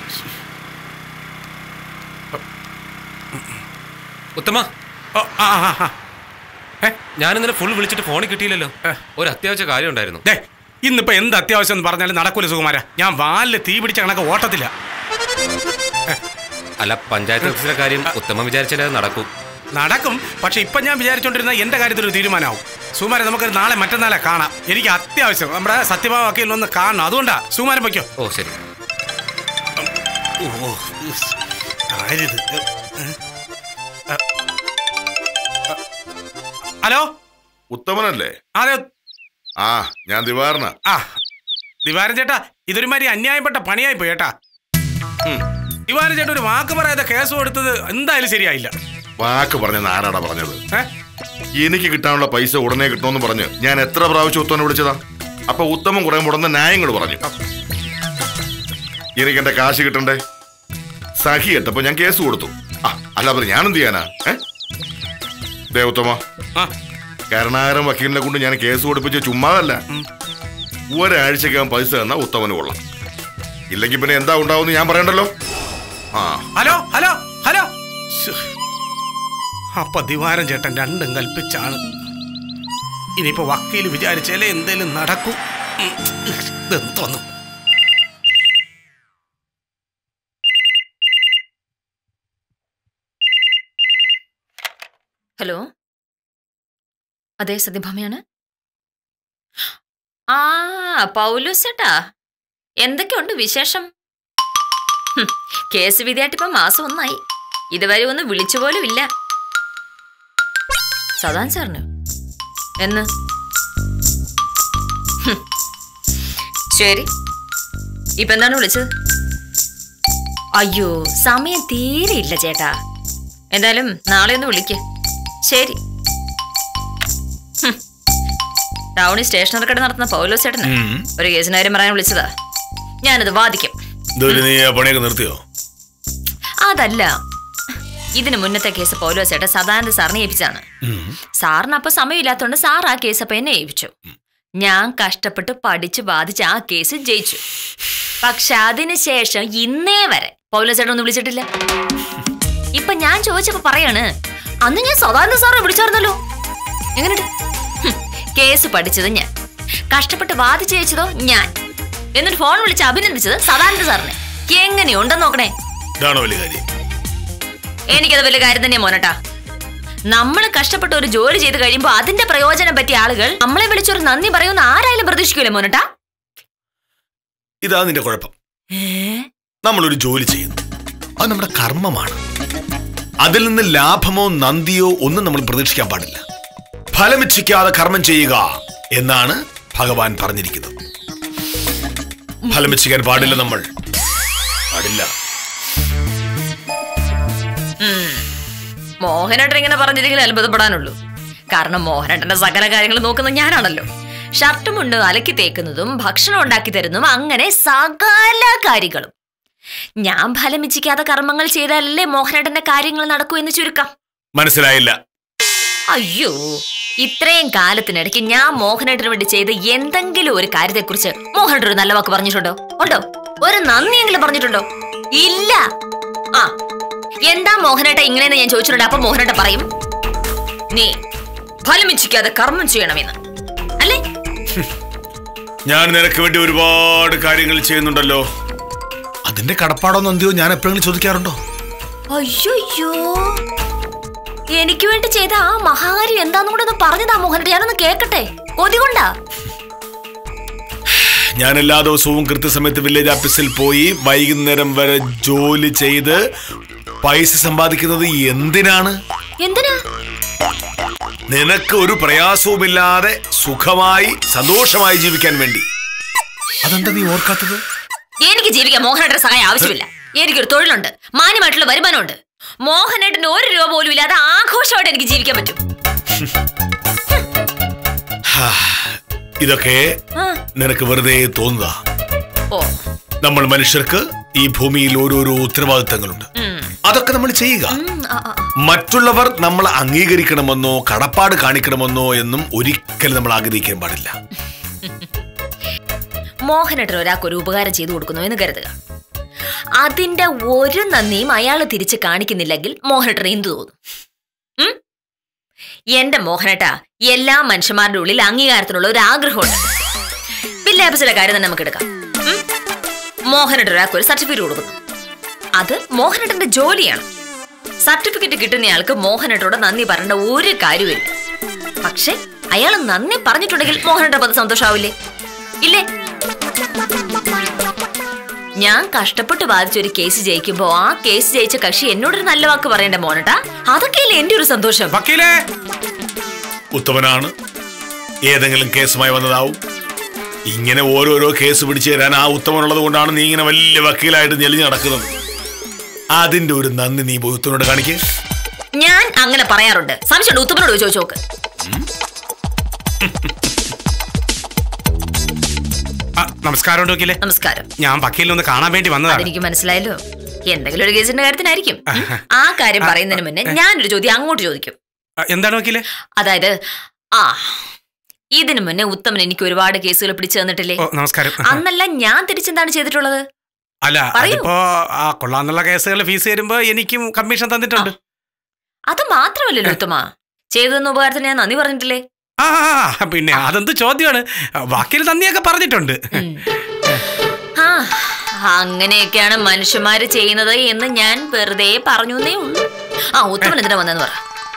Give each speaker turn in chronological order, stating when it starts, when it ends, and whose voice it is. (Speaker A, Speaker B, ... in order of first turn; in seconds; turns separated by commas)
Speaker A: 4.3-4.7, Speaker B: 5.2-5.9, Speaker A: 7.2-10.2, Speaker B: 10.2-14.7, Speaker A: 16.8-19.3, Speaker B: 19.7-28.1, Speaker A: 28.2-28.6, Speaker B: 30.4-31.3, Speaker B: 31.9-33.1, Speaker B: 36.8-37.1, Speaker C: 37.7-38.3, Speaker B: 38.6-38.9, Speaker C: 39.6-40.7, Speaker B: 40.9-41.2, Speaker B: 41.9-44.3, Speaker B: 45.9-48.7, Speaker C: 49.2-50.6, Speaker C: 51.6-57.2, Speaker C: 59.2-60.2, Speaker C: 61.2-64.4, Speaker C: 65.7-66.2, Speaker C: 67.3-69.8, Speaker C: 70.9-72.8, Speaker C: 73.7-75.3, Speaker C: 76.1-76.5, Speaker B: 76.5-78.5, Speaker B: 79.8-81.8, Speaker B: 83.2-87.2, Speaker D: 95.4-95.7, Speaker D: 97.4-98.2, Speaker D: 100.3-102.1, Speaker D: 102.8-103.9, Speaker D: 105.2-107.2, Speaker D: 107.7-109.1, Speaker D: 111.2-111.8, Speaker D: 112.8-113.1, Speaker D: 116.7-117.1, Speaker D: 118.2-118.9, Speaker D: 120.6-122.8, Speaker D: 123.5-124.8, Speaker D: 125.5-125.8, Speaker D: 129.0-132.3, Speaker E: 130.6-131.1, Speaker D: 133.0-133.8, Speaker E: 134.2-135.4, Speaker D: 136.6-137.1, Speaker D: 138.2-140.6, Speaker E: 140.8-141.1, Speaker D: 141.4-143.9, Speaker D: 144.6-147.4, Speaker D: 148.2-151.4, Speaker D: 152.8-154.1, Speaker D: 154.6-156.2, Speaker D: 157.0-157.3, Speaker D: 157.8-159.3, Speaker D: 159.9-161.5, Speaker D: 162.2-165.5, Speaker E: 166.0-166.6, Speaker D: 167.9-169.1, Speaker D: 170.1-175.8, Speaker E: 177.6-178.3, Speaker D: 178.7-179.3, Speaker E: 179.6-180.6, Speaker E: 181.2-182.2, Speaker E: 183.2-186.2, Speaker E: 186.9-190.7, Speaker D: 192.5-192.8, Speaker E: 192.5-193.7, Speaker E: 194.7-195.1, Speaker D: 197.8-198.2, Speaker D: 199.0-200.9, Speaker D: 201.5-203.9, Speaker D: 204.4-209.1, Speaker D: 210.0-213.9, Speaker E: 214.4-215.0, Speaker D: 215.9-224.6, Speaker D: 225.2-225.6, Speaker D: 227.3-229.7, Speaker D: 231.6-233.2, Speaker E: 235.7-238.2, Speaker E: 239.2-241.4, Speaker D: 242.1-243.4, Speaker D: 244.5-249.1, Speaker E: 250.9-256.2, Speaker E: 257.0-259.0, Speaker D: 259.4-259.8, Speaker E: 261.3-265.6, Speaker E: 266.6-267.6, Speaker D: 268.2-275.6, Speaker E: 278.3-280.0, Speaker E: 280.6-281.8, Speaker D: 282.5-282.8, Speaker E: 283.2-286.3, Speaker D: 286.4-286.7, Speaker E: 286.8-287.8, Speaker D: 287.7-288.5, Speaker E: 288.6-294.1, Speaker D: 296.5-298.7, Speaker D: 299.8-303.8, Speaker D: 305.9-309.6, Speaker D: 310.6-312.4, Speaker D: 313.3-314.8, Speaker D: 315.6-317.1, Speaker D: 317.8-321.1, Speaker D: 321.8-324.9, Speaker D: 328.6-335.0, Speaker B: 334.9-335.3, Speaker E: 336.7-337.3, Speaker E: 338.3-339.6, Speaker E: 340.5-345.1, Speaker E: 346.1-348.0, Speaker D: 348.8-351.2, Speaker B: 356.2-357.2, Speaker D: 357.2-357.6, Speaker B: 357.8-359.2, Speaker D: 359.1-360.0, Speaker D: 360.5-364.8, Speaker B: 361.9-362.2, Speaker B: 362.8-363.5, Speaker B: 365.3-365.8, Speaker D: 366.2-366.5, Speaker D: 367.1-367.7, Speaker D: 368.4-370.8, Speaker B: 370.8-371.6, Speaker D: 371.4-373.2, Speaker B: 373.8-377.9, Speaker D: 374.1-374.5, Speaker D: 378.9-382.0, Speaker B: 382.4-386.2, Speaker D: 386.1-386.4, Speaker D: 387.6-394.2